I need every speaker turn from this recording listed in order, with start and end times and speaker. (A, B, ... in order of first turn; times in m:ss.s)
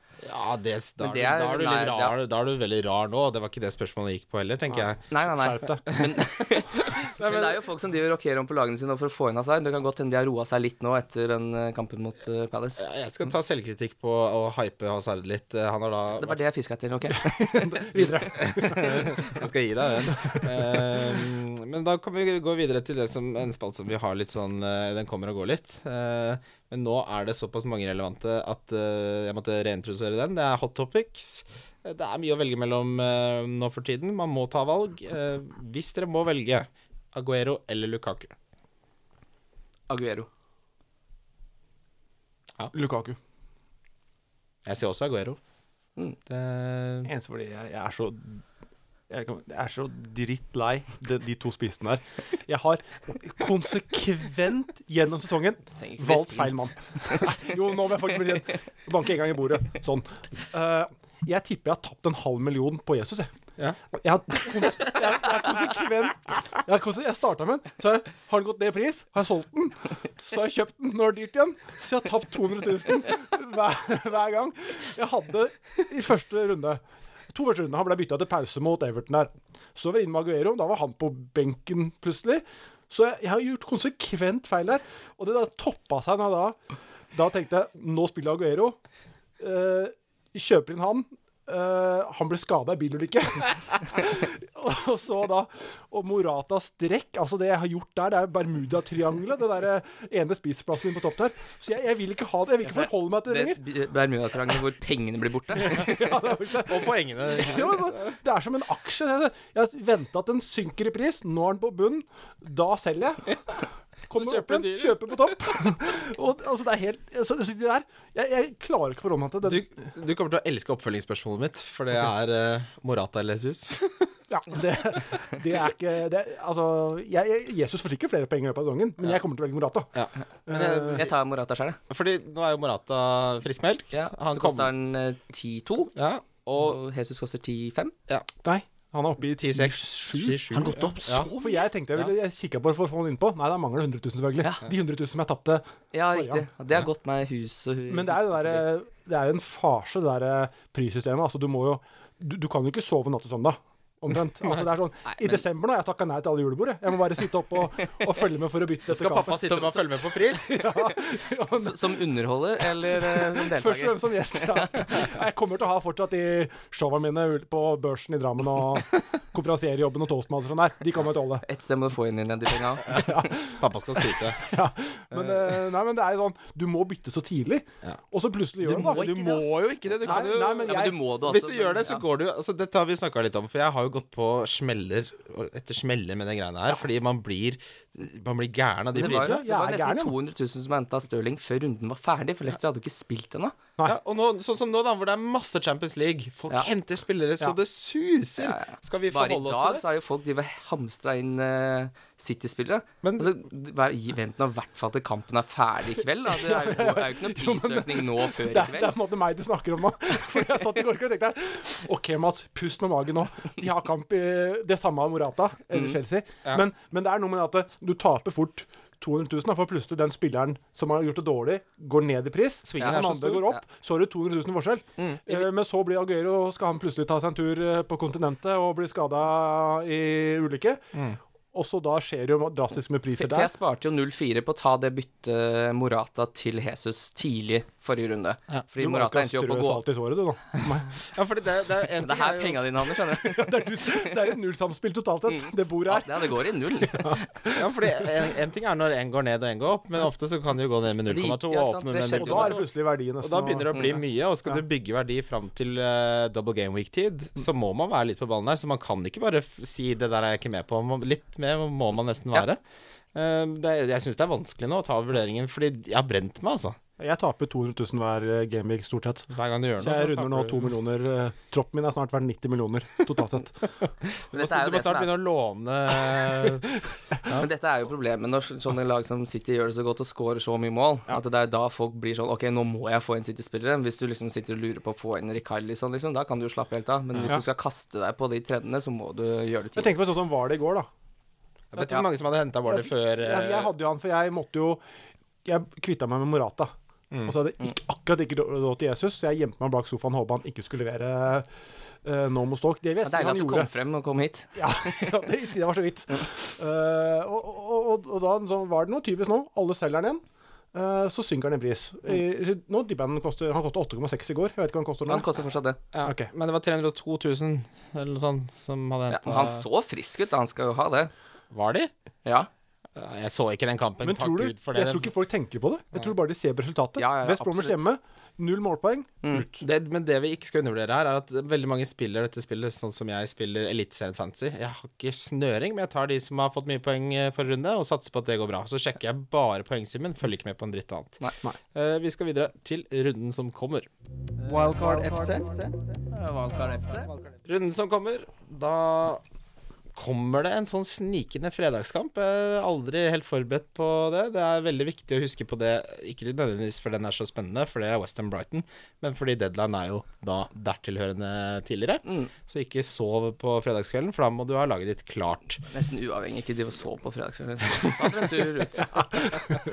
0:00.2-0:05.0 A
0:01.0-0:02.2 B
0:04.7-0:05.8 C
0:05.1-0:12.9 B
0:05.9-0:07.6 A
0:12.8-0:16.4 A
0:16.2-0:17.9 B
0:17.2-0:19.4 C
0:18.0-0:38.4 A
0:20.2-0:20.8 C
0:39.9-0:40.3 B
0:42.7-0:43.2 C
0:44.6-0:45.4 A
0:46.3-0:47.1 A
0:47.1-0:48.4 C
0:49.1-1:03.3 C
0:55.8-0:57.3 B
1:03.9-1:16.8 C
1:17.3-1:26.6 C
1:27.1-1:28.8 C
1:29.4-1:43.6 C
1:42.7-1:46.2 B
1:45.7-1:53.4 C
1:46.6-1:48.1 A
1:54.1-1:59.8 C
1:54.1-1:55.3 A
1:59.4-2:04.2 A
2:04.3-2:09.9 C
2:10.0-2:11.1 A
2:10.5-2:11.1 C
2:10.9-2:11.8 B
2:11.9-2:14.7 A
2:13.9-2:15.9 B
2:16.0-2:16.8 A
2:16.6-2:17.9 B
2:18.4-2:26.5 C
2:19.4-2:21.3 A
2:20.7-2:21.6 B
2:25.9-2:28.7 B
2:27.9-2:39.5 C
2:35.1-2:35.4 B
2:38.9-2:40.9 A
2:39.4-2:40.8 B
2:40.5-2:42.0 C
2:41.6-2:44.8 B
2:42.8-2:51.4 C
2:51.4-2:53.0 B
2:52.9-2:54.6 A
2:52.9-2:53.7 C
2:54.4-2:59.1 C
2:55.1-2:55.6 A
2:58.6-3:09.4 A
2:58.9-3:02.0 B
3:00.0-3:01.0 C
3:09.0-3:13.6 B
3:09.0-3:10.2 C
3:13.8-3:19.8 A
3:18.4-3:28.9 B
3:23.0-3:23.3 A
3:26.3-3:50.8 C
3:42.6-3:43.6 A
3:42.8-3:43.6 B
3:45.0-3:45.4 B
3:51.5-3:53.5 C
3:53.2-3:59.8 B
3:58.8-4:01.0 C
4:00.6-4:02.8 A
4:02.0-4:04.0 B
4:03.2-4:08.1 C
4:05.3-4:07.2 B
4:07.6-4:12.6 A
4:11.1-4:12.6 B
4:12.1-4:13.9 C
4:13.2-4:22.6 A
4:23.1-4:26.8 A
4:27.0-4:33.7 C
4:29.3-4:30.7 A
4:34.0-4:36.7 A
4:34.3-4:35.1 B
4:37.3-4:49.9 B
4:49.8-4:50.9 C
4:51.7-4:53.7 A
4:52.7-4:54.8 C
4:55.4-4:56.7 C
4:57.3-5:01.5 C
5:02.0-5:03.7 C
5:03.0-5:05.2 B
5:04.6-5:10.2 C
5:10.7-5:15.3 C
5:15.1-5:15.8 B
5:15.9-5:19.7 A
5:16.0-5:16.3 C
5:19.1-5:21.1 B
5:21.5-5:21.9 A
5:23.0-5:25.1 A
5:24.0-5:29.6 C
5:27.0-5:27.8 B
5:29.6-5:41.2 A
5:41.7-5:43.9 A
5:44.4-5:44.8 A
5:44.5-5:47.1 B
5:47.4-5:49.2 A
5:50.0-6:05.6 A
6:02.0-6:02.3 B
6:05.7-6:09.1 B